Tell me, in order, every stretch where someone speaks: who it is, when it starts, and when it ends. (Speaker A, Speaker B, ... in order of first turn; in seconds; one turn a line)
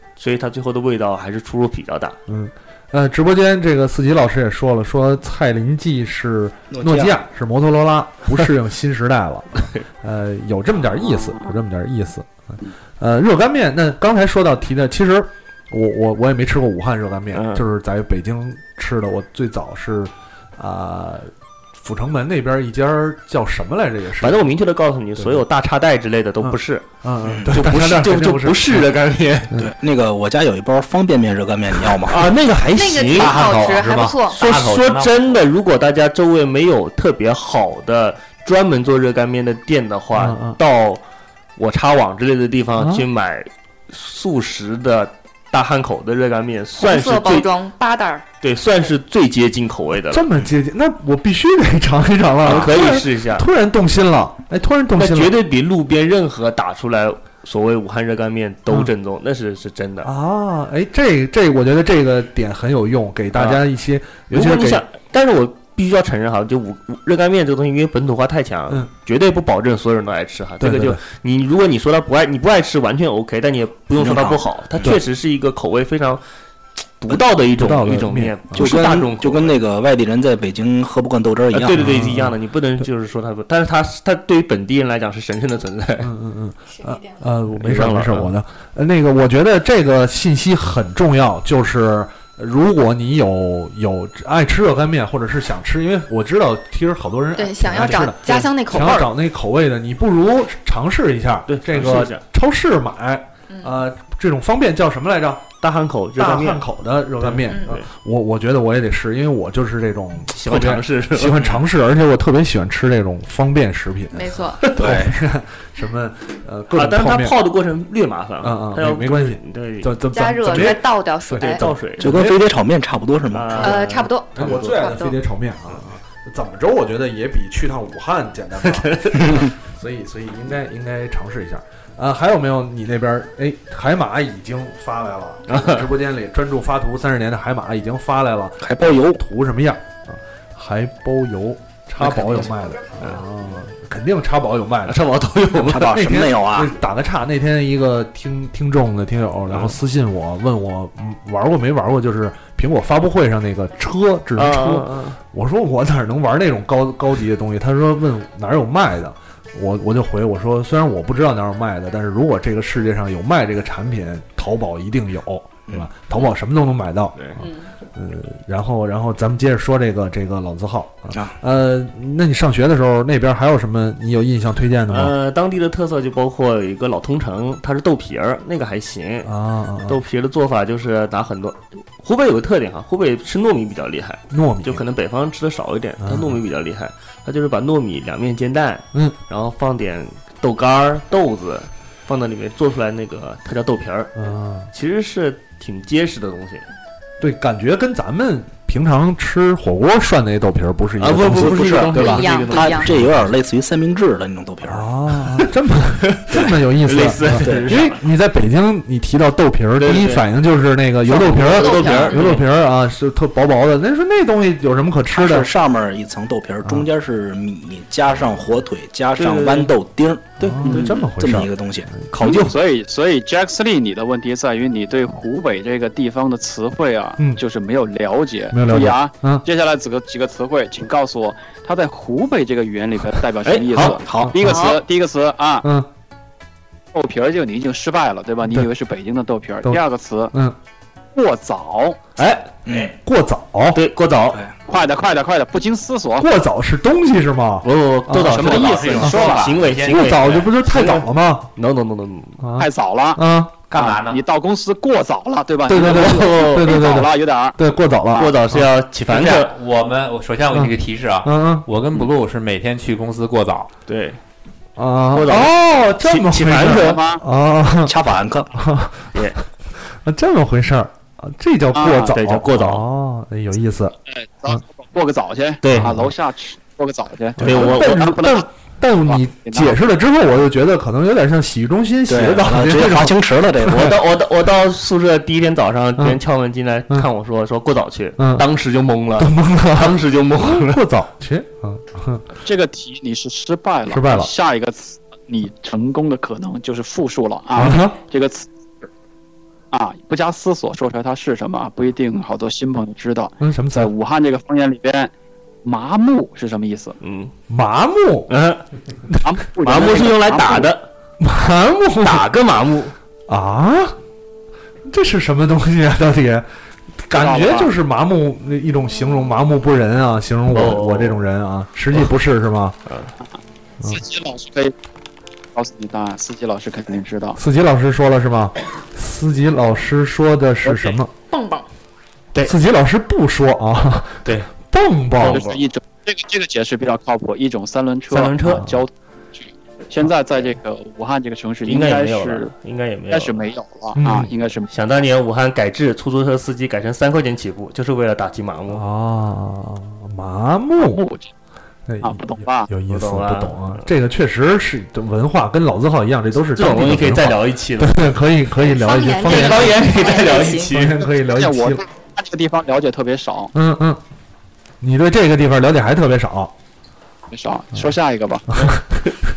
Speaker A: 0.2-2.2
Speaker B: 2.3-24.5
Speaker C: 6.7-7.2
Speaker A: 9.6-9.8
Speaker D: 11.0-11.6
Speaker A: 17.3-17.6
Speaker A: 24.2-26.9
Speaker B: 25.2-25.4
Speaker B: 26.4-28.9
Speaker C: 27.2-27.7
Speaker A: 27.5-29.6
Speaker C: 29.6-32.3
Speaker A: 32.0-41.0
Speaker E: 32.8-34.4
Speaker F: 33.1-35.3
Speaker B: 40.1-40.6
Speaker A: 41.6-47.5
Speaker B: 42.8-43.1
Speaker E: 46.8-48.2
Speaker A: 48.4-50.3
Speaker B: 50.1-55.4
Speaker A: 52.4-53.5
Speaker A: 55.0-60.1
Speaker B: 60.0-64.8
Speaker A: 63.4-63.6
Speaker A: 64.3-76.2
Speaker B: 70.6-71.0
Speaker C: 74.0-74.9
Speaker A: 77.0-79.6
Speaker B: 77.5-78.8
Speaker C: 78.5-81.8
Speaker A: 81.5-86.1
Speaker B: 81.8-82.4
Speaker B: 86.0-105.6
Speaker E: 86.8-87.2
Speaker A: 87.5-88.3
Speaker E: 97.4-99.1
Speaker A: 101.5-102.2
Speaker A: 105.6-106.7
Speaker B: 106.2-117.4
Speaker A: 107.2-107.8
Speaker A: 110.3-111.6
Speaker E: 114.1-114.6
Speaker A: 114.6-114.9
Speaker C: 114.8-115.2
Speaker A: 116.7-120.8
Speaker B: 118.4-122.4
Speaker E: 120.1-121.7
Speaker A: 121.3-122.3
Speaker C: 122.0-123.8
Speaker A: 123.3-124.9
Speaker E: 123.6-125.2
Speaker B: 124.3-145.1
Speaker A: 128.7-129.4
Speaker A: 135.5-135.8
Speaker C: 138.6-139.2
Speaker A: 142.0-143.2
Speaker A: 144.9-146.0
Speaker C: 145.6-146.7
Speaker B: 145.8-175.2
Speaker A: 154.4-155.2
Speaker E: 167.4-167.7
Speaker A: 174.9-179.3
Speaker B: 179.2-180.0
Speaker A: 179.8-194.2
Speaker B: 184.3-184.8
Speaker B: 186.0-186.4
Speaker B: 194.2-194.7
Speaker A: 194.7-196.6
Speaker B: 197.2-202.2
Speaker A: 201.0-203.2
Speaker C: 201.3-204.9
Speaker E: 201.9-202.9
Speaker B: 204.7-215.5
Speaker A: 206.0-208.0
Speaker C: 206.3-206.6
Speaker C: 207.4-207.8
Speaker A: 209.8-210.3
Speaker E: 211.1-212.3
Speaker A: 211.1-212.5
Speaker C: 215.2-221.9
Speaker A: 219.2-219.7
Speaker B: 220.4-222.5
Speaker D: 220.6-221.0
Speaker A: 222.2-222.5
Speaker D: 222.2-235.7
Speaker B: 228.5-229.4
Speaker A: 233.4-233.9
Speaker B: 233.8-234.7
Speaker C: 234.0-234.3
Speaker E: 234.4-234.8
Speaker B: 235.6-235.9
Speaker D: 236.9-240.3
Speaker B: 239.6-240.6
Speaker D: 241.2-242.0
Speaker A: 242.2-242.5
Speaker C: 242.7-242.9
Speaker B: 243.0-243.8
Speaker A: 243.7-244.4
Speaker D: 244.7-246.3
Speaker B: 246.2-248.4
Speaker A: 247.6-252.5
Speaker D: 248.3-249.5
Speaker F: 248.3-250.5
Speaker B: 249.8-251.5
Speaker B: 252.4-253.6
Speaker D: 252.6-257.6
Speaker F: 253.7-254.2
Speaker B: 255.7-258.7
Speaker A: 255.7-256.8
Speaker A: 258.2-259.6
Speaker F: 259.1-263.7
Speaker B: 260.5-261.7
Speaker A: 263.9-264.2
Speaker B: 264.8-268.0
Speaker A: 265.1-267.0
Speaker D: 266.6-267.2
Speaker C: 267.9-268.5
Speaker B: 268.5-274.0
Speaker A: 269.1-269.4
Speaker D: 271.8-272.1
Speaker A: 272.1-272.8
Speaker D: 274.1-278.5
Speaker A: 275.6-276.0
Speaker B: 275.7-276.1
Speaker B: 277.4-284.0
Speaker A: 277.4-278.4
Speaker D: 279.1-279.8
Speaker C: 282.1-284.0
Speaker A: 283.7-290.8
Speaker B: 288.2-288.5
Speaker B: 289.2-292.3
Speaker D: 292.4-298.9
Speaker B: 293.9-294.3
Speaker B: 297.6-298.0
Speaker D: 299.7-305.1
Speaker B: 303.4-303.9
Speaker D: 305.6-307.0
Speaker A: 307.0-307.3
Speaker B: 307.5-308.3
Speaker A: 308.3-308.6
Speaker D: 309.2-310.7
Speaker A: 309.6-310.9
Speaker B: 311.2-312.3
Speaker A: 312.0-312.9
Speaker B: 313.3-314.0
Speaker B: 314.9-316.5
Speaker B: 317.0-322.8
Speaker D: 317.1-317.7
Speaker A: 320.5-321.3
Speaker D: 323.9-324.8
Speaker D: 325.6-327.4
Speaker B: 327.4-331.1
Speaker D: 330.6-331.0
Speaker E: 331.3-331.6
Speaker B: 332.4-335.4
Speaker A: 334.2-334.5
Speaker A: 335.2-335.6
Speaker D: 335.3-342.5
Speaker A: 338.1-338.6
Speaker B: 338.5-338.8
Speaker A: 341.6-343.5
Speaker D: 343.1-344.7
Speaker B: 344.0-344.3
Speaker A: 344.7-348.9
Speaker B: 348.7-351.0
Speaker D: 350.8-351.3
Speaker B: 351.9-361.8
Speaker D: 352.0-352.7
Speaker A: 352.9-353.8
Speaker A: 356.6-358.1
Speaker E: 358.6-360.7
Speaker A: 359.3-361.0
Speaker D: 361.3-363.5
Speaker B: 363.5-364.0
Speaker B: 364.8-366.5
Speaker D: 367.3-368.7
Speaker B: 368.5-369.0